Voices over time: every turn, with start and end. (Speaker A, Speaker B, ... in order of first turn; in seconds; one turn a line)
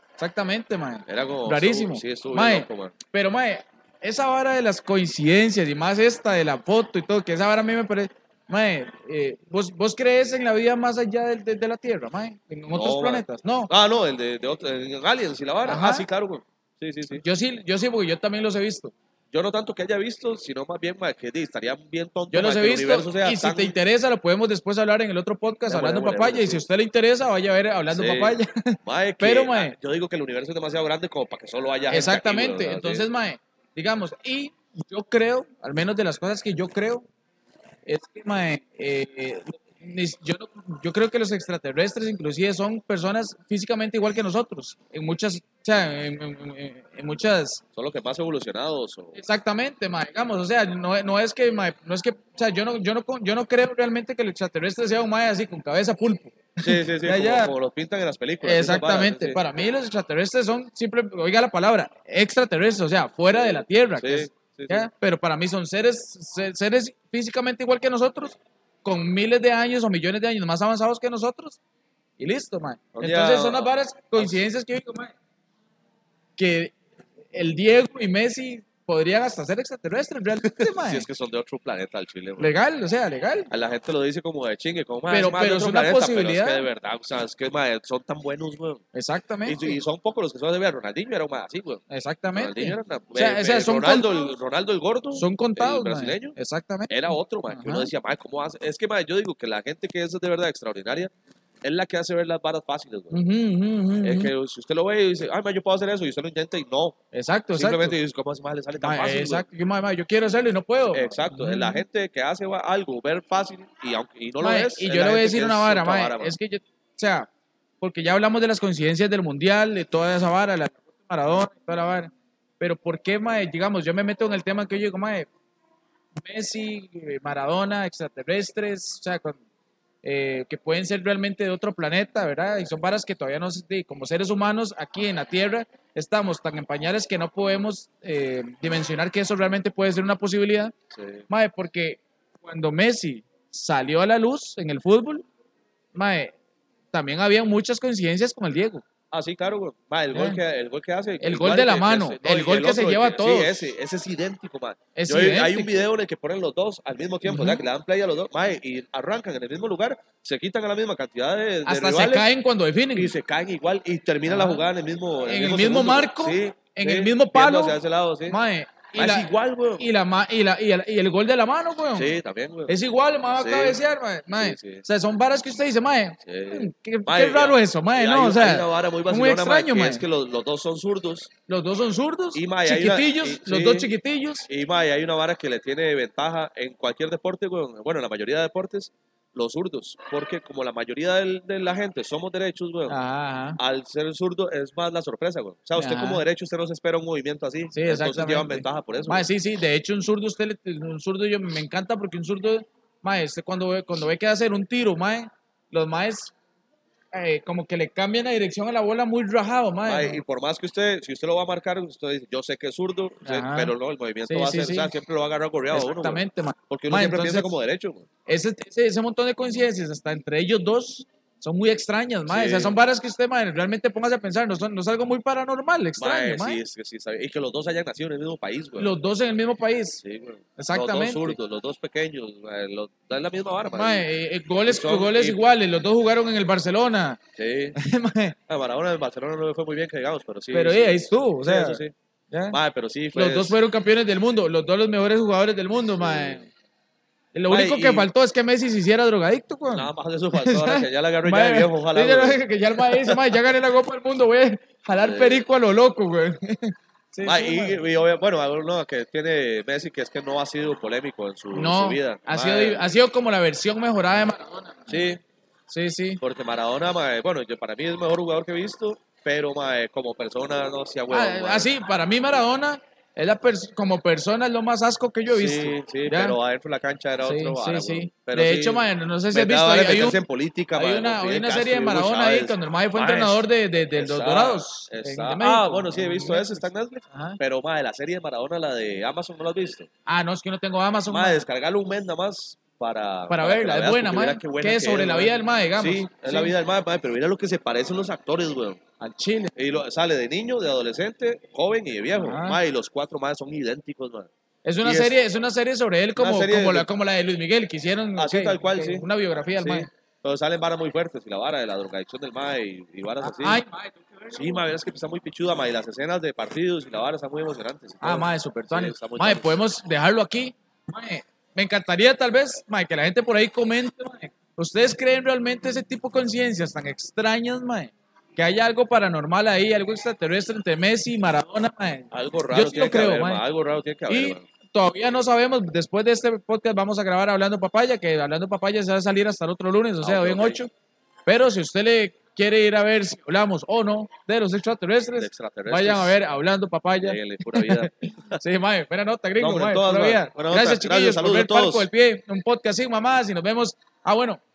Speaker A: 0.2-13.7
Speaker B: 1.1-2.9
Speaker B: 12.7-17.2
Speaker A: 15.6-16.1
Speaker A: 17.1-18.9
Speaker B: 19.3-23.8
Speaker A: 22.3-29.8
Speaker B: 25.7-26.6
Speaker B: 27.9-33.1
Speaker A: 31.9-37.1
Speaker A: 37.9-47.6
Speaker B: 47.8-49.2
Speaker A: 49.1-57.5
Speaker B: 56.6-59.4
Speaker A: 58.4-71.6
Speaker B: 63.5-64.9
Speaker A: 72.2-75.1
Speaker B: 73.0-74.4
Speaker A: 76.4-76.8
Speaker A: 77.3-81.1
Speaker B: 80.4-82.6
Speaker A: 82.4-83.5
Speaker B: 83.5-88.8
Speaker A: 85.1-86.7
Speaker A: 88.9-89.8
Speaker B: 89.5-91.8
Speaker A: 91.9-94.3
Speaker B: 92.3-96.4
Speaker A: 95.1-97.9
Speaker B: 96.9-101.1
Speaker B: 101.6-103.2
Speaker A: 103.1-104.3
Speaker B: 104.0-107.0
Speaker A: 107.1-108.0
Speaker B: 107.5-109.5
Speaker A: 108.8-111.8
Speaker B: 110.9-116.3
Speaker A: 114.4-117.3
Speaker A: 117.8-125.3
Speaker A: 126.2-129.4
Speaker A: 130.0-140.7
Speaker B: 140.9-141.2
Speaker A: 141.3-145.2
Speaker A: 145.9-146.3
Speaker A: 146.9-148.8
Speaker B: 149.1-162.3
Speaker A: 150.1-150.4
Speaker A: 151.2-153.6
Speaker A: 154.9-155.8
Speaker A: 157.2-157.6
Speaker A: 161.7-163.1
Speaker B: 162.9-168.4
Speaker A: 164.3-164.7
Speaker A: 165.3-172.1
Speaker B: 169.0-169.9
Speaker B: 171.9-172.7
Speaker A: 172.7-180.0
Speaker B: 173.4-173.8
Speaker B: 174.3-174.8
Speaker B: 176.2-181.3
Speaker A: 181.5-184.5
Speaker B: 182.3-183.9
Speaker B: 184.5-193.0
Speaker A: 192.9-193.6
Speaker B: 193.6-199.3
Speaker A: 195.8-196.2
Speaker A: 197.7-206.3
Speaker A: 207.1-210.2
Speaker B: 209.8-218.1
Speaker A: 213.2-213.7
Speaker A: 214.3-214.9
Speaker A: 215.7-217.5
Speaker A: 218.3-226.6
Speaker B: 222.3-222.8
Speaker B: 226.0-228.9
Speaker A: 228.8-230.0
Speaker B: 230.0-234.1
Speaker A: 230.6-231.4
Speaker A: 233.7-237.2
Speaker B: 234.6-235.4
Speaker B: 237.4-237.8
Speaker A: 237.8-238.4
Speaker B: 238.5-241.9
Speaker A: 240.5-242.6
Speaker B: 242.5-243.6
Speaker A: 243.1-246.5
Speaker B: 246.0-246.4
Speaker A: 247.3-257.8
Speaker B: 247.5-248.1
Speaker B: 249.7-253.4
Speaker B: 255.0-255.5
Speaker B: 257.2-262.8
Speaker A: 261.5-265.2
Speaker B: 264.9-265.2
Speaker A: 265.7-266.2
Speaker B: 266.2-271.7
Speaker A: 271.1-276.4
Speaker B: 275.3-289.9
Speaker A: 277.2-280.2
Speaker A: 280.8-287.4
Speaker A: 290.1-291.4
Speaker B: 291.1-298.8
Speaker A: 293.3-296.5
Speaker A: 299.0-299.5
Speaker B: 299.6-304.3
Speaker A: 302.1-302.6
Speaker A: 304.6-309.9
Speaker B: 304.8-305.2
Speaker B: 306.2-306.9
Speaker B: 308.1-309.1
Speaker B: 309.6-313.6
Speaker A: 313.2-314.7
Speaker B: 314.3-319.6
Speaker A: 318.0-333.4
Speaker B: 332.1-334.4
Speaker A: 334.1-340.7
Speaker B: 340.0-340.6
Speaker A: 341.3-354.4
Speaker B: 345.2-346.2
Speaker B: 347.0-348.4
Speaker B: 349.4-351.9